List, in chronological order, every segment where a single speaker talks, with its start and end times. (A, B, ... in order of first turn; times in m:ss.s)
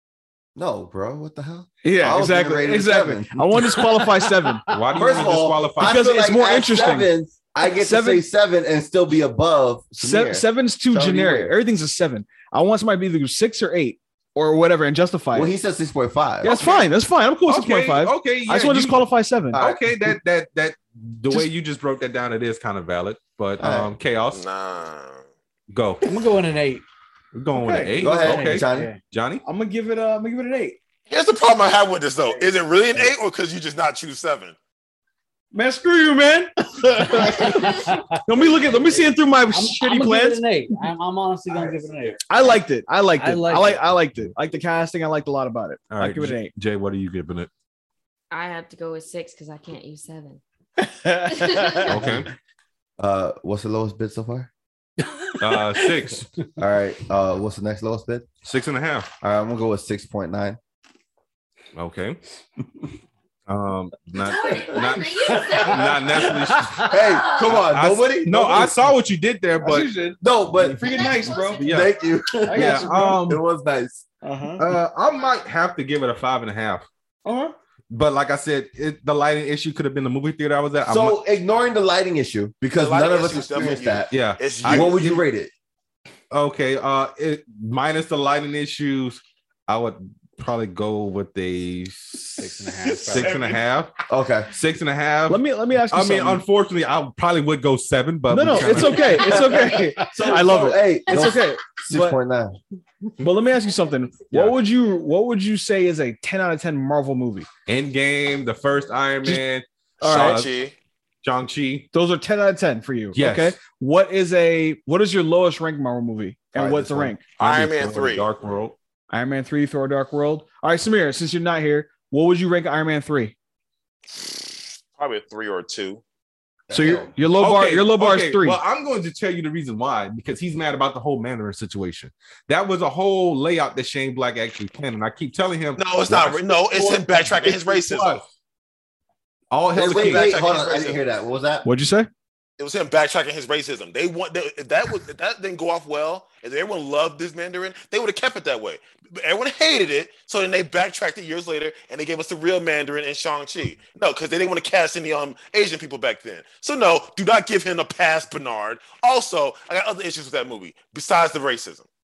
0:00.6-0:03.9 A
0:01.8-0:05.0 B
0:04.7-0:06.2 C
0:04.9-0:11.6 A
0:05.8-0:07.1 B
0:07.6-0:08.2 B
0:10.0-0:15.5 B
0:15.3-0:16.6 A
0:16.4-0:19.6 B
0:16.5-0:16.9 C
0:17.5-0:24.4 C
0:19.5-0:19.8 A
0:23.6-0:23.9 A
0:24.3-0:25.2 D
0:25.7-0:26.1 C
0:26.0-0:26.8 E
0:27.3-0:29.4 C
0:27.5-0:28.0 B
0:28.0-0:28.9 A
0:28.0-0:29.0 E
0:29.4-0:30.8 B
0:31.1-0:34.6 D
0:35.5-0:40.8 B
0:37.2-0:42.2 E
0:42.3-0:46.5 B
0:43.2-0:43.9 E
0:45.9-0:47.5 C
0:48.3-0:50.4 F
0:50.8-0:52.1 B
0:51.4-0:51.8 F
0:51.8-0:52.3 C
0:53.0-0:54.5 A
0:55.4-0:56.3 C
0:56.6-0:58.3 A
0:58.4-0:59.1 C
0:59.2-1:00.6 A
1:01.8-1:02.2 C
1:03.5-1:09.9 C
1:04.2-1:06.5 F
1:06.8-1:08.9 A
1:07.1-1:07.5 F
1:09.6-1:11.7 B
1:10.2-1:14.0 A
1:10.9-1:11.6 F
1:11.6-1:11.9 C
1:12.4-1:13.2 B
1:12.5-1:13.4 C
1:14.2-1:14.7 B
1:14.6-1:16.9 C
1:17.2-1:17.5 B
1:17.9-1:21.2 C
1:20.8-1:24.1 A
1:22.8-1:25.1 D
1:24.1-1:25.2 C
1:24.6-1:25.5 A
1:26.3-1:33.9 C
1:32.4-1:33.5 E
1:33.2-1:33.5 D
1:34.1-1:34.5 A
1:34.5-1:39.4 C
1:35.3-1:36.4 B
1:38.3-1:42.2 B
1:39.1-1:42.6 A
1:43.2-1:47.5 B
1:44.3-1:44.6 C
1:47.7-1:50.5 C
1:50.0-1:50.7 D
1:50.0-1:50.4 B
1:51.2-1:51.9 C
1:51.9-1:57.3 B
1:53.1-1:53.6 C
1:56.6-1:57.2 A
1:57.4-1:58.3 D
1:57.4-1:58.8 C
1:59.1-2:03.3 B
2:05.0-2:06.0 D
2:06.7-2:07.1 A
2:06.7-2:08.6 B
2:07.4-2:18.3 C
2:15.8-2:18.2 D
2:19.5-2:20.3 C
2:19.7-2:21.6 A
2:19.8-2:21.0 D
2:21.6-2:22.1 B
2:22.6-2:41.9 D